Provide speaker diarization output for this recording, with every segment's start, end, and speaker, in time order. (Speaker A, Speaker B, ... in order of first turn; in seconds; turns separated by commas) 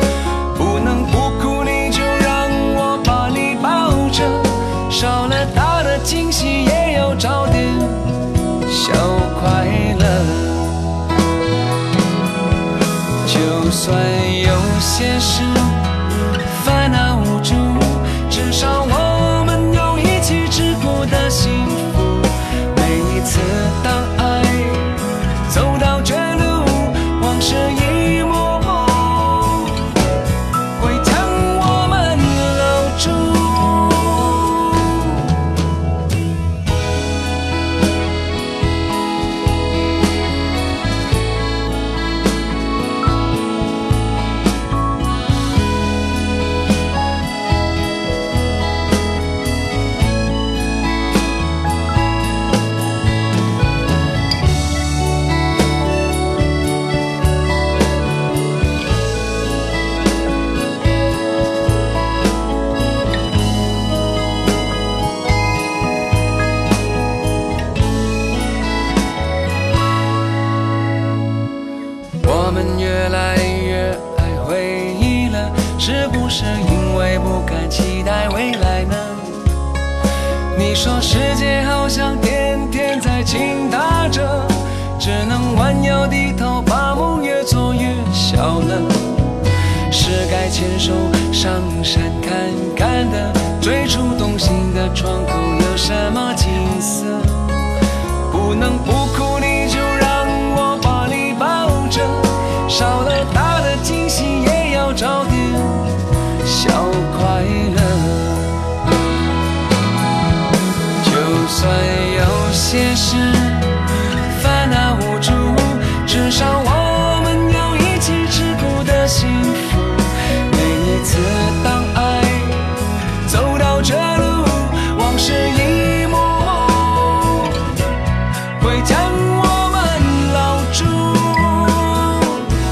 Speaker A: 0.5-10.8, Speaker A: 13.2-29.8, Speaker A: 30.8-35.2, Speaker A: 72.2-79.4, Speaker A: 80.5-89.2, Speaker A: 89.9-97.6, Speaker A: 98.3-108.6, Speaker A: 111.0-122.7, Speaker A: 123.2-127.7, Speaker A: 128.6-132.5